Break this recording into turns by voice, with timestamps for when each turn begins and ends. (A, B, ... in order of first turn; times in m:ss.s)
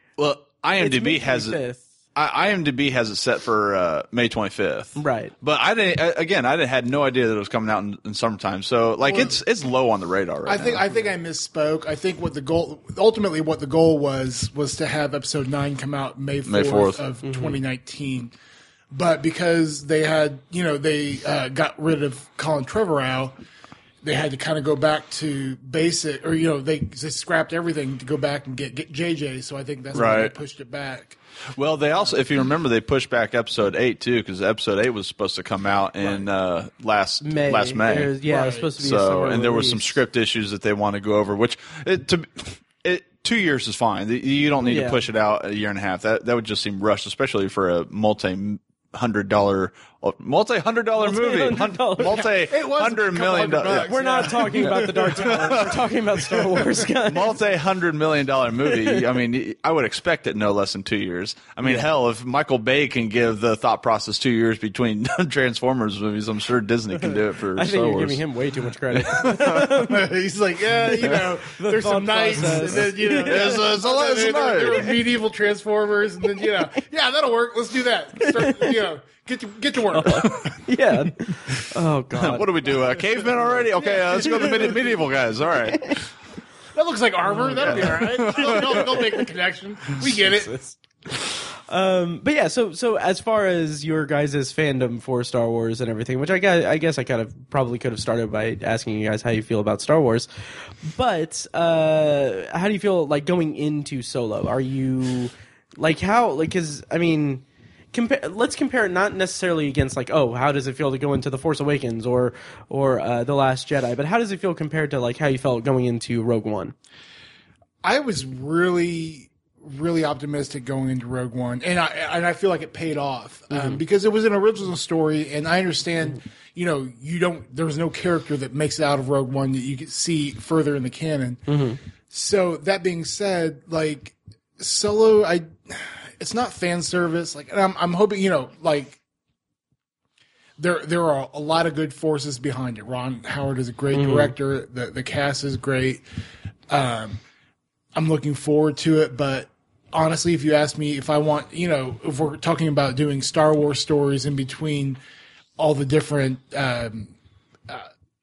0:00.2-0:01.6 A
0:00.8-0:01.9 B
0:02.2-0:10.8 A
0:05.0-0:05.3 B
0:09.0-0:09.4 C
0:10.5-0:18.3 C
0:16.5-0:17.0 A
0:17.2-0:17.6 B
0:18.9-0:23.4 C
0:24.0-0:31.2 C
0:29.9-0:30.4 A
0:31.6-0:38.2 A
0:36.0-0:36.3 C
0:37.2-0:40.0 B
0:38.3-0:38.7 C
0:38.8-0:55.9 A
0:44.6-0:45.0 B
0:51.0-0:52.2 B
0:52.0-0:55.9 C
0:53.8-0:57.4 B
0:57.0-1:08.2 A
0:58.7-0:59.0 B
1:07.6-1:10.1 B
1:08.9-1:09.6 A
1:09.5-1:20.6 C
1:10.9-1:13.6 B
1:13.2-1:15.0 A
1:18.2-1:18.7 B
1:20.0-1:22.7 B
1:22.2-1:26.0 A
1:23.4-1:24.8 B
1:24.4-1:25.0 C
1:25.7-1:26.0 B
1:26.7-1:30.5 C
1:27.3-1:29.3 B
1:27.8-1:28.9 A
1:30.0-1:40.3 B
1:40.9-1:56.8 B
1:57.8-2:11.5 C
2:03.5-2:03.8 B
2:11.5-2:11.8 B
2:12.1-2:19.0 C
2:20.6-2:26.0 C
2:23.9-2:24.3 B
2:26.7-2:27.2 C
2:28.0-2:35.0 C
2:35.6-2:37.1 C